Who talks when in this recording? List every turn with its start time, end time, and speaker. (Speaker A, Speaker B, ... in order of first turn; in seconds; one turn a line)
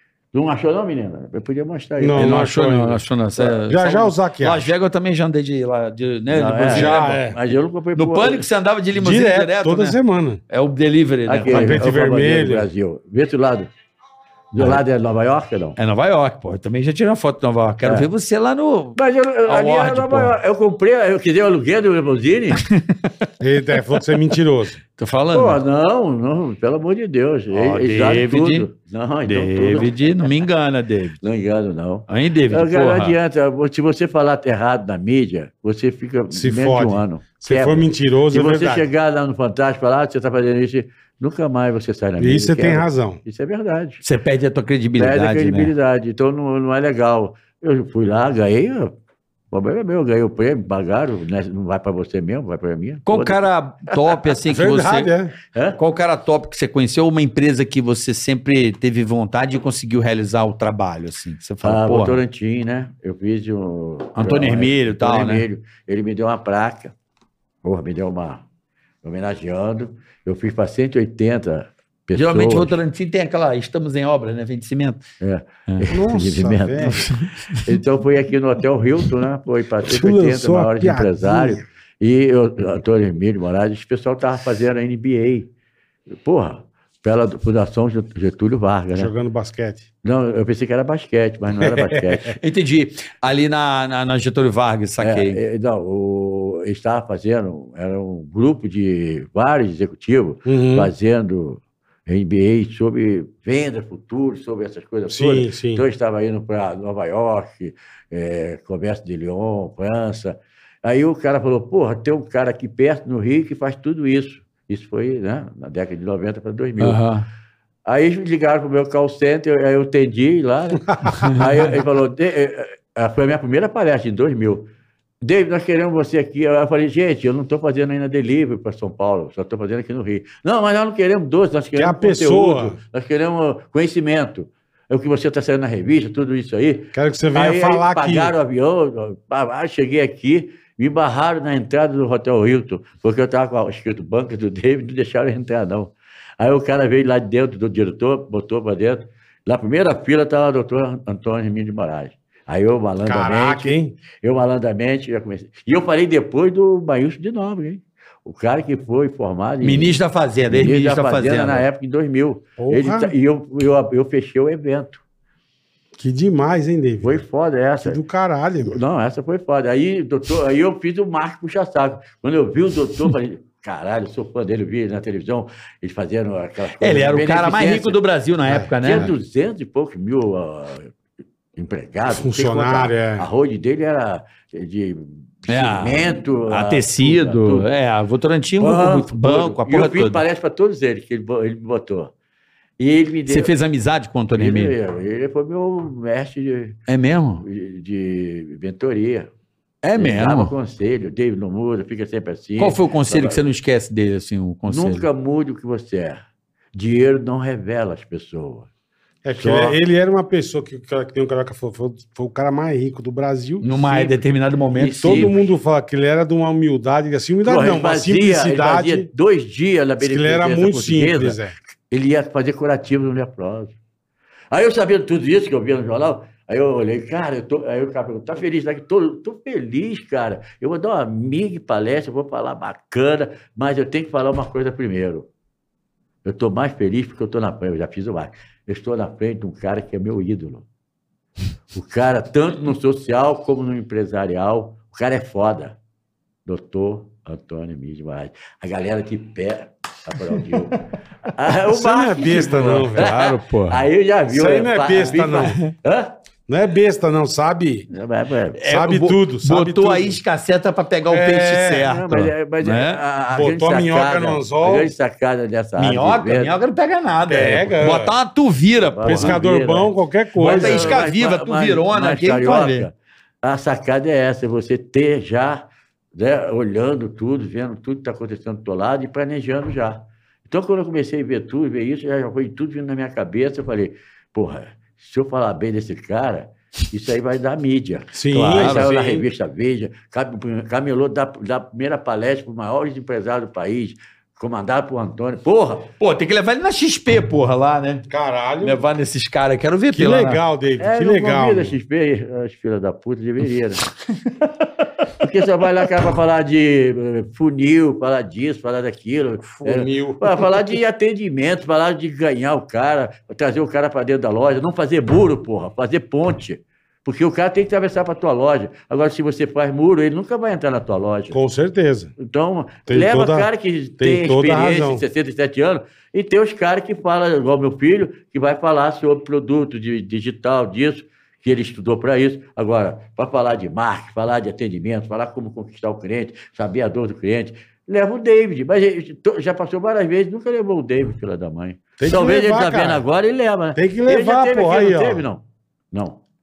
Speaker A: 0.3-2.4
Speaker B: 2.0-4.7
Speaker C: 2.1-7.3
Speaker A: 6.3-8.5
Speaker B: 6.7-7.4
Speaker C: 7.9-10.0
Speaker B: 8.9-10.4
Speaker C: 10.5-11.8
Speaker A: 11.3-13.7
Speaker B: 11.5-12.7
Speaker A: 14.5-15.8
Speaker C: 15.8-20.3
Speaker A: 18.9-22.6
Speaker C: 22.6-23.1
Speaker B: 23.4-24.8
Speaker C: 25.0-25.6
Speaker A: 25.3-30.0
Speaker C: 27.5-28.7
Speaker C: 29.2-31.2
Speaker A: 31.2-44.0
Speaker C: 32.1-33.1
Speaker B: 36.3-38.9
Speaker B: 42.2-43.2
Speaker C: 44.0-45.7
Speaker A: 45.0-48.9
Speaker A: 49.5-54.0
Speaker C: 53.0-55.1
Speaker B: 54.5-55.3
Speaker A: 55.5-55.8
Speaker C: 55.8-62.2
Speaker A: 61.6-66.9
Speaker C: 64.2-65.4
Speaker A: 67.6-68.4
Speaker A: 69.0-72.7
Speaker C: 72.1-75.0
Speaker A: 75.2-85.5
Speaker B: 75.9-77.1
Speaker C: 76.8-77.8
Speaker B: 79.8-81.6
Speaker A: 86.2-89.1
Speaker B: 88.9-89.8
Speaker A: 90.0-92.4
Speaker B: 91.6-91.9
Speaker C: 92.3-95.4
Speaker A: 95.0-117.0
Speaker B: 100.5-100.9
Speaker B: 105.1-105.8
Speaker C: 116.8-117.2
Speaker A: 117.8-124.7
Speaker C: 121.1-121.4
Speaker A: 125.2-160.0
Speaker B: 131.8-132.8
Speaker B: 136.9-138.3
Speaker B: 153.0-153.9
Speaker C: 159.6-161.6
Speaker A: 160.5-165.0
Speaker B: 162.6-163.1
Speaker B: 166.0-167.2
Speaker A: 167.0-168.0
Speaker B: 167.8-168.8
Speaker A: 168.6-178.0
Speaker C: 176.8-179.1
Speaker B: 178.4-178.7
Speaker A: 178.8-180.9
Speaker A: 181.6-187.7
Speaker B: 182.1-183.3
Speaker C: 185.5-190.2
Speaker A: 188.6-192.1
Speaker A: 192.8-193.5
Speaker C: 193.3-194.7
Speaker A: 194.3-196.8
Speaker C: 196.9-197.4
Speaker A: 197.4-199.3
Speaker C: 199.8-200.5
Speaker A: 199.9-203.4
Speaker C: 202.6-205.1
Speaker A: 204.7-206.2
Speaker A: 206.7-208.7
Speaker B: 209.2-214.1
Speaker A: 209.4-209.7
Speaker C: 213.6-215.3
Speaker A: 214.7-215.4
Speaker B: 215.0-219.1
Speaker A: 217.4-223.7
Speaker B: 220.0-221.6
Speaker A: 224.5-235.3
Speaker A: 236.2-240.7
Speaker A: 241.7-245.8
Speaker A: 246.4-250.8
Speaker A: 251.3-256.1
Speaker B: 251.7-253.2
Speaker C: 252.9-253.8
Speaker B: 254.3-255.6
Speaker B: 256.5-257.9
Speaker A: 257.9-258.6
Speaker C: 258.6-263.0
Speaker B: 258.7-260.2
Speaker B: 261.1-261.9
Speaker A: 261.8-266.5
Speaker B: 263.3-264.9
Speaker C: 265.8-269.4
Speaker B: 267.3-268.1
Speaker A: 268.9-295.9
Speaker B: 269.0-271.0
Speaker C: 270.4-272.9
Speaker B: 288.1-289.2
Speaker C: 288.3-288.9
Speaker C: 296.0-298.1
Speaker B: 298.1-298.8
Speaker C: 298.6-300.4
Speaker B: 299.9-301.8
Speaker A: 300.8-303.8
Speaker A: 305.2-321.4
Speaker B: 309.6-310.7
Speaker B: 321.3-322.1
Speaker A: 322.2-346.2
Speaker B: 322.9-323.5
Speaker B: 324.0-325.0
Speaker B: 342.0-343.0
Speaker B: 343.8-345.2